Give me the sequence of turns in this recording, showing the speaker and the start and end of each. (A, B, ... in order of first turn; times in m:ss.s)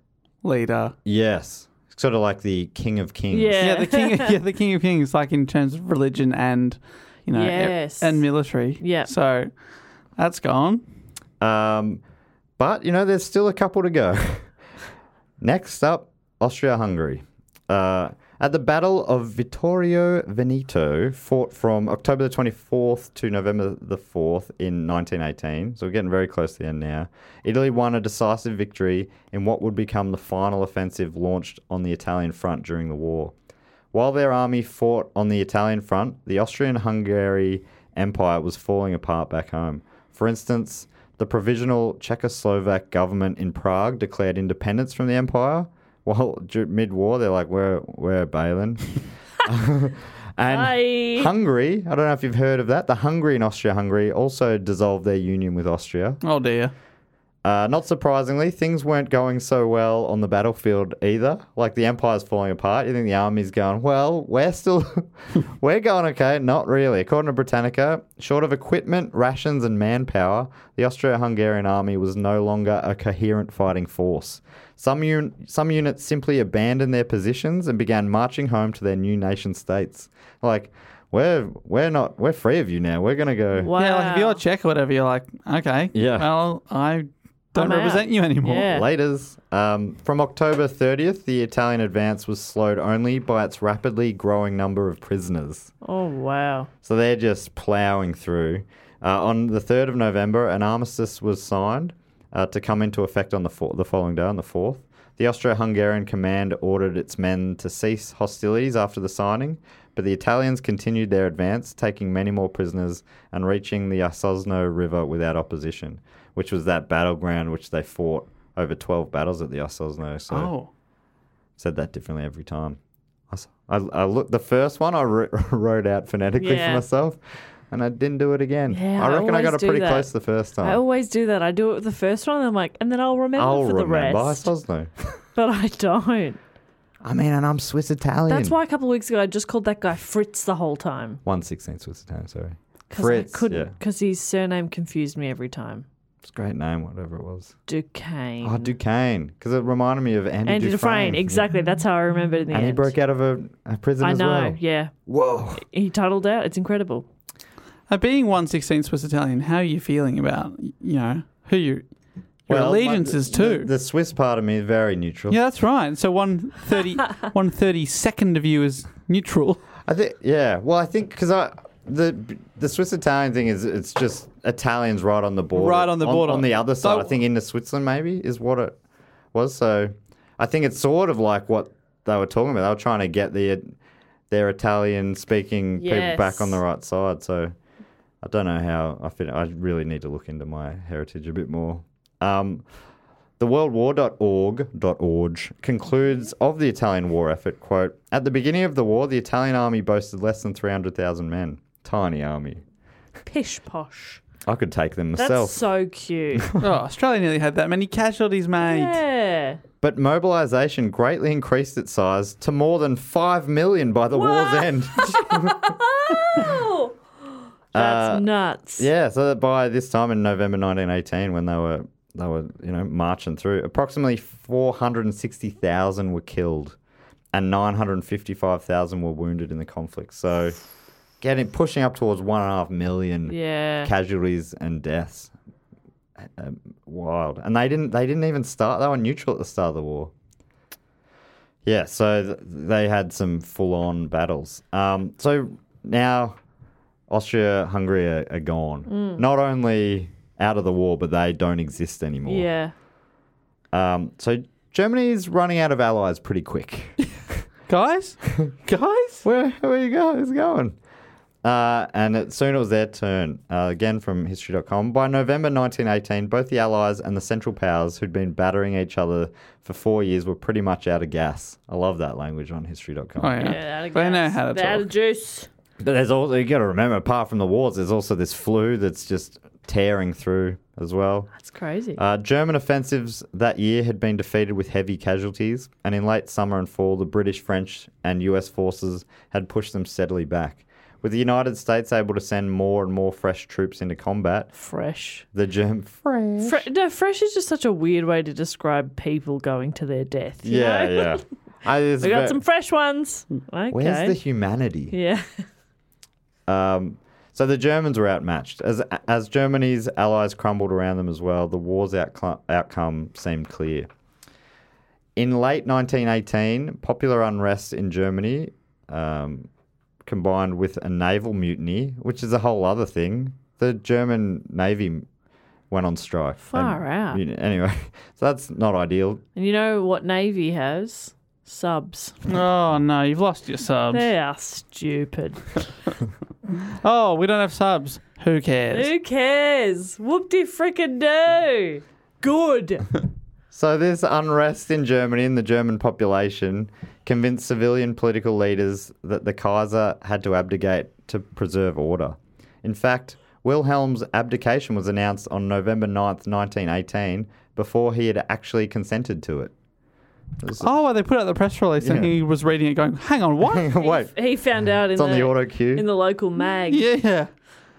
0:00.4-0:00.9 A
0:01.0-0:03.6 B
0:03.3-0:04.3 C
0:03.6-0:09.5 A
0:07.3-0:08.3 C
0:08.8-0:09.1 C
0:10.2-0:10.8 A
0:11.4-0:12.0 B
0:12.6-0:14.5 B
0:15.4-0:33.3 B
0:33.9-0:56.2 B
0:50.5-0:51.3 C
0:56.2-0:56.7 A
0:57.4-1:23.7 B
1:23.6-1:24.4 C
1:23.8-1:28.7 A
1:25.9-1:26.3 B
1:27.5-1:28.9 C
1:28.7-1:35.7 B
1:35.8-1:36.7 C
1:36.8-2:00.5 B
2:00.3-2:00.7 A
2:01.6-2:02.8 B
2:03.3-2:10.8 B
2:06.4-2:06.8 C
2:08.7-2:10.1 C
2:10.6-2:14.5 C
2:13.4-2:15.2 B
2:15.4-2:16.4 C
2:17.0-2:18.6 B
2:18.3-2:21.2 C
2:21.2-2:23.7 B
2:22.9-2:25.8 C
2:26.2-2:27.5 B
2:27.7-2:28.7 C
2:28.4-2:31.5 B
2:30.4-2:32.9 C
2:32.5-2:35.6 B
2:34.0-2:34.9 C
2:35.6-2:37.0 C
2:37.9-2:41.8 A
2:42.5-2:43.7 A
2:42.5-2:45.4 B
2:45.3-2:49.6 A
2:49.9-2:58.8 B
2:55.5-2:57.1 A
2:59.3-3:03.7 B
3:04.3-3:07.5 B
3:05.8-3:06.6 C
3:08.2-3:12.6 B
3:13.4-3:22.6 B
3:23.3-3:24.2 C
3:24.4-3:25.7 B
3:25.2-3:26.5 C
3:26.3-3:26.7 B
3:26.6-3:29.0 A
3:28.6-3:29.6 C
3:29.8-3:35.7 B
3:34.1-3:36.9 C
3:37.7-3:46.8 B
3:37.7-3:38.9 C
3:47.3-3:50.6 B
3:51.2-3:55.3 B
3:53.3-3:53.9 C
3:56.2-4:00.1 B
4:01.6-4:06.4 B
4:07.1-4:12.5 B
4:08.9-4:09.2 C
4:12.2-4:12.7 C
4:13.7-4:17.0 B
4:17.7-4:19.2 A
4:19.2-4:20.8 B
4:21.4-4:33.6 B
4:33.2-4:34.9 A
4:33.4-4:35.5 C
4:35.8-4:41.3 B
4:41.3-4:42.0 C
4:41.9-4:54.5 B
4:54.5-4:55.2 C
4:55.3-4:56.6 B
4:56.4-5:01.2 C
5:00.4-5:02.4 B
5:02.0-5:04.2 C
5:03.7-5:04.9 B
5:04.9-5:05.4 C
5:06.5-5:13.9 B
5:15.2-5:19.5 B
5:20.0-5:25.0 B
5:25.7-5:29.2 B
5:26.4-5:27.2 C
5:29.4-5:32.2 C
5:32.2-5:34.1 A
5:33.9-5:35.6 C
5:36.8-5:38.9 A
5:38.7-5:42.8 C
5:43.5-5:59.5 B
6:00.4-6:00.7 B
6:00.6-6:03.7 A
6:01.8-6:02.1 B
6:03.4-6:04.1 B
6:03.8-6:06.8 C
6:04.9-6:05.8 B
6:06.7-6:07.3 A